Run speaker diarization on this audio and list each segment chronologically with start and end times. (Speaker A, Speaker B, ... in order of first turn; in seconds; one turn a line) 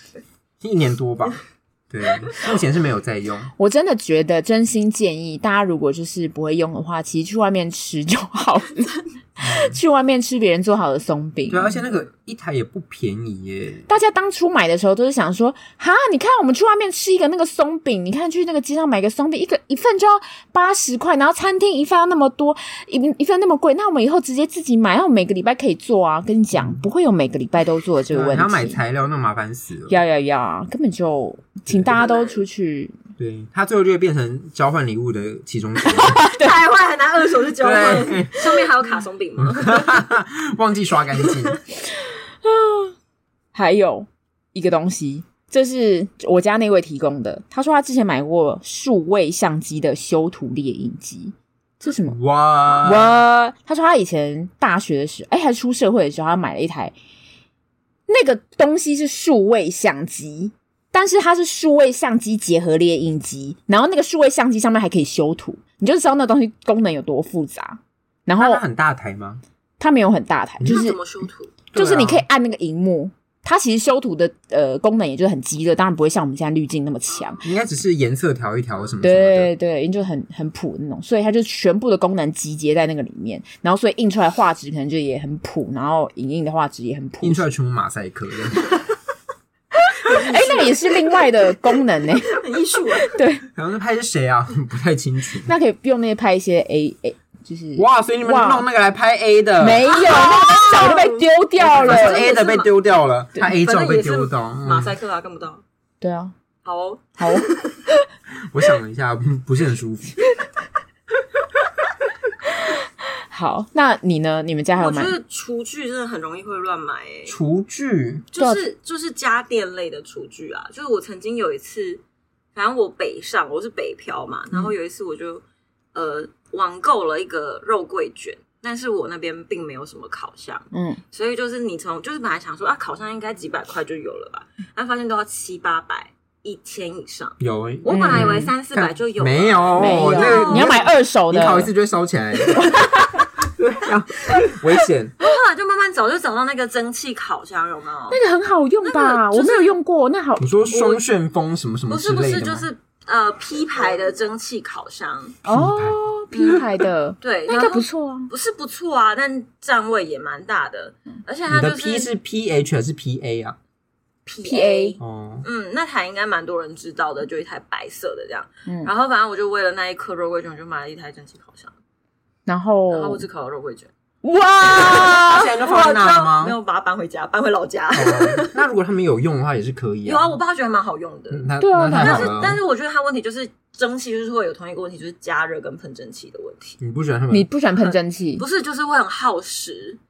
Speaker A: 0.6-3.5
Speaker B: 3.6-11.8
Speaker A: 9.4-9.8
Speaker A: 11.5-13.9
Speaker B: 13.9-28.8
Speaker A: 26.5-26.8
Speaker A: 28.1-30.0
Speaker B: 29.9-33.0
Speaker A: 31.7-31.9
Speaker C: 32.0-32.4
Speaker A: 33.2-36.2
Speaker B: 35.9-36.5
Speaker C: 36.3-40.0
Speaker A: 37.6-38.5
Speaker A: 39.4-41.6
Speaker C: 41.2-41.6
Speaker B: 42.4-42.9
Speaker B: 43.5-52.2
Speaker A: 52.1-53.1
Speaker B: 52.7-56.9
Speaker B: 58.1-68.6
Speaker A: 68.4-69.4
Speaker B: 69.8-71.0
Speaker C: 70.7-71.5
Speaker A: 71.7-72.2
Speaker B: 71.7-77.4
Speaker A: 77.4-79.5
Speaker B: 79.0-87.5
Speaker A: 87.2-88.7
Speaker B: 89.8-92.4
Speaker C: 90.1-91.0
Speaker C: 92.2-93.2
Speaker B: 93.1-93.4
Speaker A: 93.5-95.5
Speaker B: 95.5-98.6
Speaker A: 97.8-99.9
Speaker B: 99.6-102.2
Speaker C: 99.9-102.7
Speaker A: 101.7-105.0
Speaker C: 103.4-105.6
Speaker B: 106.0-106.3
Speaker C: 106.6-107.8
Speaker B: 107.2-107.5
Speaker A: 108.5-110.2
Speaker B: 113.3-115.1
Speaker C: 114.8-117.3
Speaker A: 117.3-118.2
Speaker C: 118.3-122.0
Speaker B: 118.4-118.6
Speaker C: 122.5-125.4
Speaker C: 125.9-140.9
Speaker B: 130.7-131.0
Speaker A: 137.4-142.6
Speaker B: 137.9-138.4
Speaker B: 139.8-141.7
Speaker B: 142.5-143.2
Speaker A: 143.4-145.1
Speaker C: 145.2-148.2
Speaker B: 148.1-151.0
Speaker C: 148.8-149.8
Speaker A: 150.4-152.7
Speaker C: 151.9-155.4
Speaker A: 155.4-156.6
Speaker B: 155.4-158.3
Speaker C: 157.2-162.1
Speaker A: 161.5-163.6
Speaker C: 164.2-171.7
Speaker B: 164.4-165.0
Speaker A: 165.0-165.4
Speaker B: 168.7-168.9
Speaker B: 172.4-173.2
Speaker C: 172.9-173.9
Speaker B: 174.2-175.5
Speaker C: 174.6-178.6
Speaker A: 174.7-176.6
Speaker A: 177.9-180.4
Speaker C: 180.0-186.8
Speaker A: 181.3-182.6
Speaker B: 181.6-182.4
Speaker A: 186.8-187.5
Speaker B: 187.3-188.4
Speaker C: 187.8-190.0